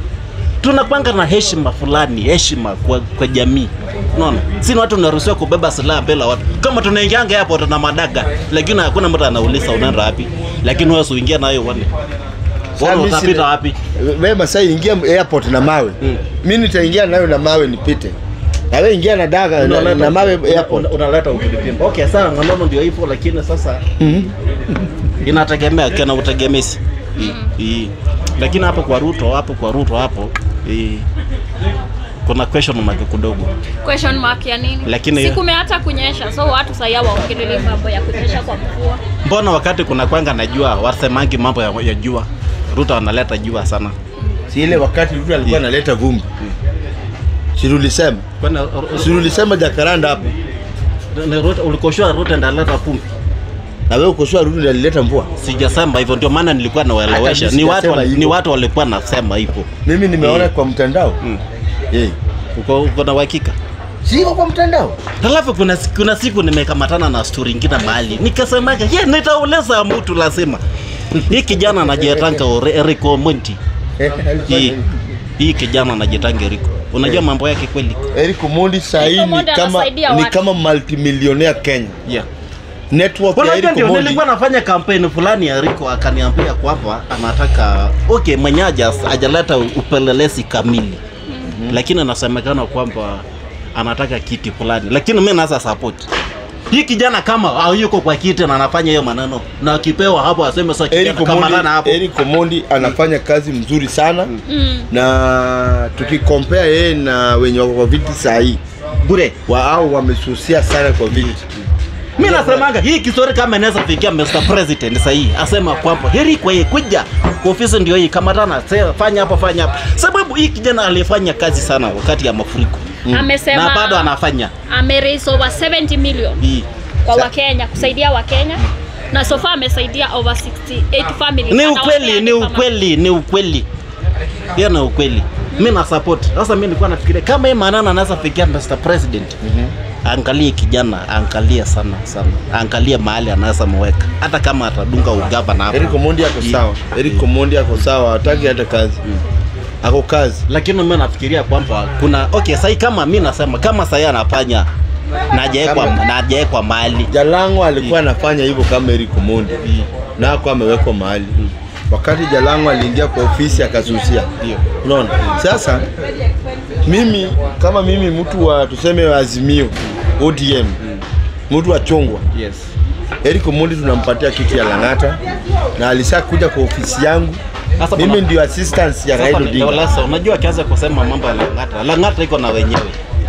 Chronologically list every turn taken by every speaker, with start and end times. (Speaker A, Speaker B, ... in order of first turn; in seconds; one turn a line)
Speaker A: 0.6-11.9
Speaker A: 12.8-13.8
Speaker B: 12.8-18.1
Speaker B: 18.7-20.9
Speaker A: 19.6-23.8
Speaker B: 24.0-24.3
Speaker A: 25.2-31.0
Speaker C: 27.2-27.5
Speaker A: 32.2-33.5
Speaker C: 33.8-39.0
Speaker A: 34.8-35.4
Speaker A: 39.2-43.9
Speaker B: 44.5-46.3
Speaker B: 47.5-48.2
Speaker A: 48.4-49.4
Speaker B: 48.9-50.3
Speaker A: 51.1-53.1
Speaker B: 53.9-55.3
Speaker A: 55.4-60.5
Speaker B: 57.1-58.4
Speaker B: 59.8-61.2
Speaker B: 61.9-62.1
Speaker A: 62.5-63.5
Speaker B: 64.0-65.0
Speaker A: 65.2-70.6
Speaker A: 71.1-73.6
Speaker B: 71.2-72.3
Speaker B: 74.0-75.0
Speaker A: 74.5-74.8
Speaker A: 75.4-78.0
Speaker B: 78.1-82.0
Speaker C: 79.0-80.4
Speaker B: 82.9-84.2
Speaker A: 83.3-91.0
Speaker C: 91.3-91.5
Speaker B: 91.5-91.8
Speaker A: 91.7-93.2
Speaker A: 93.7-96.1
Speaker A: 96.7-102.0
Speaker B: 100.9-104.3
Speaker C: 104.5-104.9
Speaker B: 104.9-108.6
Speaker A: 109.0-109.3
Speaker B: 109.5-111.3
Speaker A: 111.1-122.8
Speaker B: 112.2-112.7
Speaker B: 123.0-123.3
Speaker C: 123.1-124.1
Speaker A: 123.5-124.5
Speaker C: 124.7-126.4
Speaker A: 126.4-126.7
Speaker C: 127.0-132.7
Speaker A: 131.5-133.7
Speaker A: 134.5-139.3
Speaker B: 139.4-139.7
Speaker A: 140.0-147.2
Speaker B: 145.7-149.0
Speaker B: 149.8-150.4
Speaker A: 150.5-154.7
Speaker A: 155.3-157.1
Speaker B: 155.6-156.0
Speaker B: 157.1-159.6
Speaker A: 159.6-159.9
Speaker B: 160.2-161.4
Speaker B: 161.9-164.3
Speaker A: 164.4-165.4
Speaker B: 164.8-165.8
Speaker B: 166.8-170.8
Speaker B: 171.5-172.2
Speaker A: 172.3-172.7
Speaker B: 173.2-175.2
Speaker B: 175.8-177.4
Speaker A: 177.8-178.2
Speaker B: 177.9-179.9
Speaker A: 179.1-183.0